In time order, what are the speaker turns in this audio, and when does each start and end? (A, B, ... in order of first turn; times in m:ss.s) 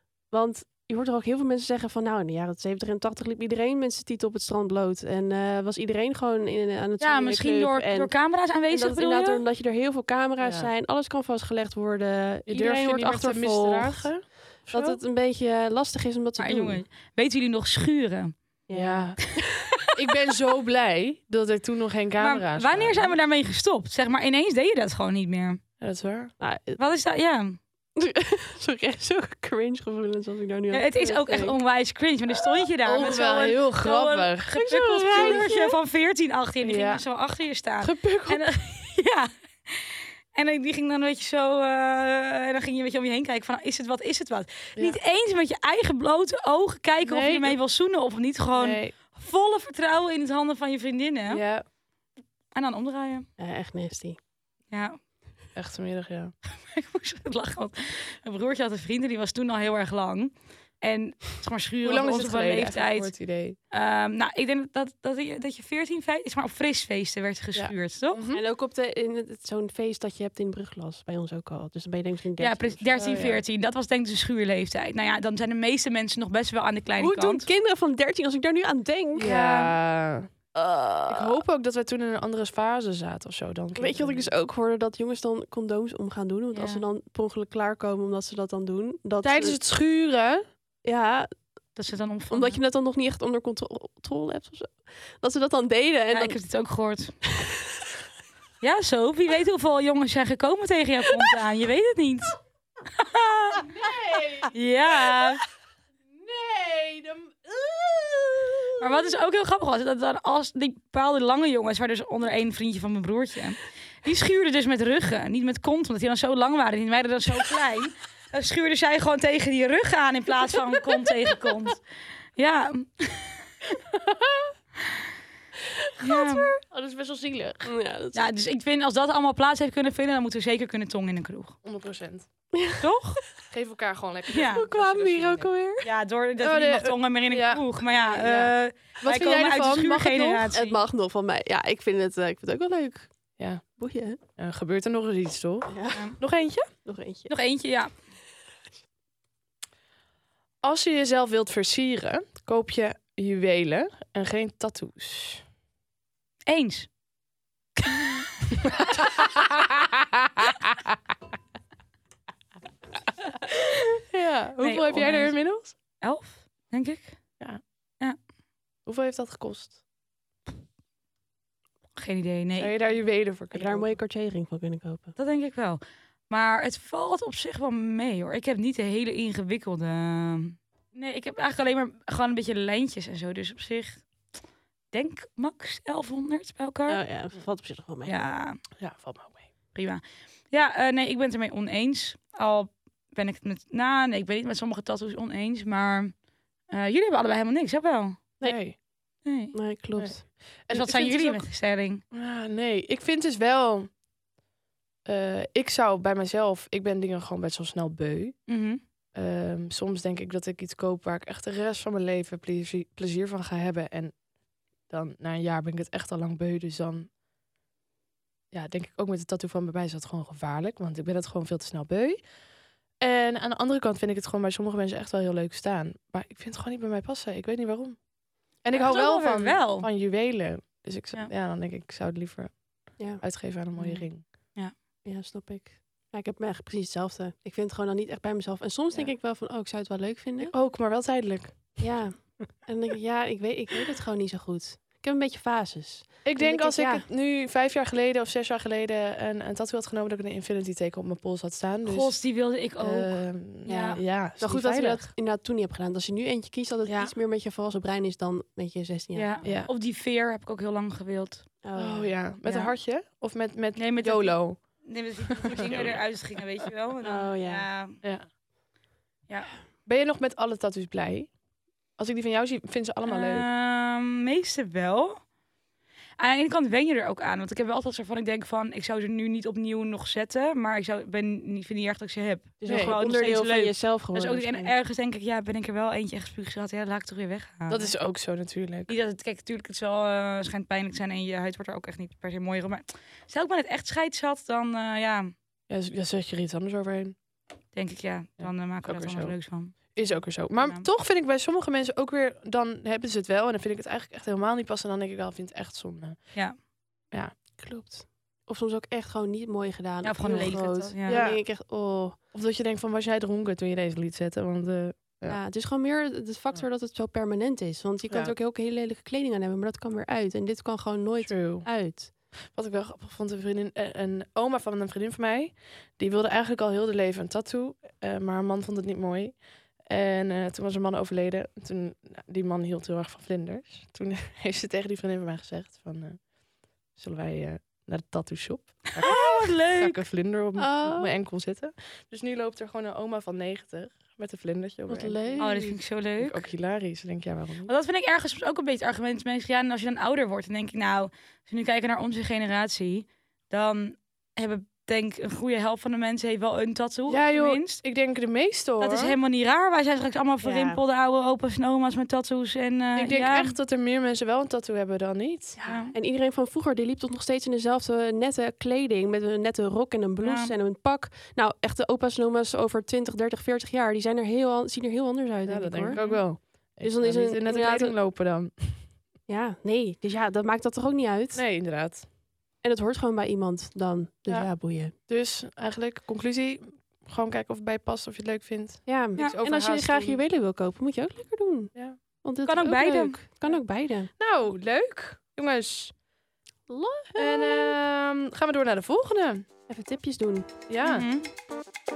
0:00.3-0:16.8 A
0:07.0-0:09.4 B
0:10.4-0:10.7 C
0:12.5-0:15.0 C
0:16.4-0:18.4 B
0:18.7-0:19.5 A
0:18.7-0:19.2 C
0:19.9-0:23.1 C
0:22.2-0:25.6 B
0:25.8-0:26.3 C
0:26.4-0:26.8 A
0:26.8-0:27.6 B
0:28.0-0:31.6 A
0:30.7-0:51.4 B
0:32.8-0:35.5 C
0:34.6-0:35.7 A
0:36.6-0:37.0 C
0:37.8-0:38.4 C
0:47.0-0:47.6 C
0:48.5-0:49.0 C
0:51.3-0:51.6 C
0:52.5-0:53.3 B
0:53.4-0:54.2 A
0:54.7-0:55.0 B
0:55.5-0:56.3 C
0:56.4-1:03.2 B
1:01.8-1:03.6 C
1:03.7-1:08.2 B
1:07.5-1:08.4 C
1:08.3-1:13.0 A
1:12.4-1:17.5 B
1:12.9-1:13.4 C
1:17.0-1:19.5 A
1:19.2-1:19.7 B
1:19.2-1:20.3 C
1:20.5-1:21.4 A
1:21.1-1:24.3 C
1:23.8-1:29.6 A
1:26.5-1:26.8 B
1:29.2-1:30.4 C
1:30.8-1:31.3 A
1:31.8-1:32.6 B
1:32.3-1:36.4 A
1:36.1-1:37.1 B
1:38.6-1:42.4 B
1:43.0-1:43.6 B
1:43.6-1:44.5 C
1:44.5-1:45.4 B
1:46.1-1:48.6 C
1:48.8-2:01.8 B
2:02.4-2:03.4 B
2:06.0-2:06.5 B
2:06.1-2:06.5 A
2:06.6-2:07.7 C
2:07.6-2:08.3 A
2:08.1-2:11.6 B
2:11.6-2:12.3 C
2:12.5-2:12.8 A
2:12.8-2:13.2 B
2:13.5-2:15.5 C
2:14.3-2:14.6 B
2:14.5-2:15.9 A
2:15.8-2:20.8 B
2:16.4-2:20.5 C
2:20.5-2:23.1 A
2:23.4-2:23.6 C
2:23.8-2:24.2 A
2:24.4-2:26.7 C
2:25.7-2:26.1 A
2:26.8-2:27.3 A
2:27.3-2:27.9 B
2:30.6-2:35.4 C
2:36.5-2:36.9 B
2:43.9-2:45.7 C
2:44.6-2:47.2 B
2:48.8-2:49.8 C
2:52.0-2:52.7 B
2:52.6-2:54.0 C
2:53.5-2:55.1 A
2:55.2-3:04.0 B
3:04.9-3:07.0 B
3:06.9-3:08.2 A
3:08.0-3:08.6 B
3:08.8-3:09.5 C
3:09.7-3:16.1 B
3:16.7-3:18.2 B
3:18.4-3:18.8 C
3:19.2-3:19.5 B
3:19.5-3:20.3 A
3:20.0-3:21.5 C
3:20.7-3:22.0 B
3:22.1-3:23.9 C
3:25.0-3:28.4 C
3:28.5-3:28.8 B
3:29.1-3:34.2 C
3:34.8-3:37.1 C
3:38.5-3:42.3 C
3:43.0-3:54.2 C
3:48.7-3:49.9 B
3:53.0-3:53.2 A
3:55.0-4:00.5 A
4:00.4-4:02.2 C
4:01.8-4:07.0 A
4:06.2-4:15.1 C
4:11.8-4:14.0 B
4:13.7-4:19.3 A
4:16.8-4:17.1 C
4:19.1-4:21.4 B
4:19.4-4:19.7 C
4:21.6-4:22.7 A
4:21.7-4:25.0 C
4:23.8-4:28.0 B
4:25.5-4:26.0 C
4:27.0-4:27.7 A
4:29.8-4:31.3 C
4:32.0-4:33.5 C
4:33.1-4:35.2 B
4:36.2-4:47.9 B
4:42.6-4:44.7 A
4:42.6-4:43.0 C
4:47.7-4:48.9 C
4:48.9-4:55.3 B
4:55.7-4:57.2 C
4:57.7-5:00.9 B
4:58.4-5:06.4 C
5:07.1-5:07.4 C
5:07.6-5:12.2 A
5:10.0-5:11.2 B
5:10.2-5:10.5 C
5:11.0-5:11.4 C
5:12.3-5:15.4 C
5:15.3-5:22.1 A
5:18.1-5:18.3 C
5:21.2-5:21.7 C
5:22.4-5:36.3 C
5:36.9-5:45.5 C
5:39.0-5:40.0 B
5:40.6-5:41.1 A
5:44.9-5:45.8 A
5:45.4-5:46.4 B
5:46.2-5:47.7 C
5:47.7-5:57.8 B
5:57.1-5:59.2 C
5:58.8-6:03.6 B
6:00.4-6:00.8 A
6:03.0-6:05.6 C
6:05.6-6:16.1 A
6:05.6-6:05.9 B
6:10.2-6:10.5 B
6:15.4-6:18.9 C
6:15.9-6:16.2 B
6:16.8-6:17.9 A
6:19.3-6:21.4 A
6:21.3-6:22.1 C
6:22.6-6:24.9 A
6:25.1-6:30.2 C
6:28.8-6:34.1 A
6:32.4-6:33.2 B
6:34.2-6:35.9 C
6:36.7-6:37.7 A
6:37.2-6:39.4 C
6:39.7-6:40.5 A
6:40.7-6:41.0 C
6:40.8-6:41.3 B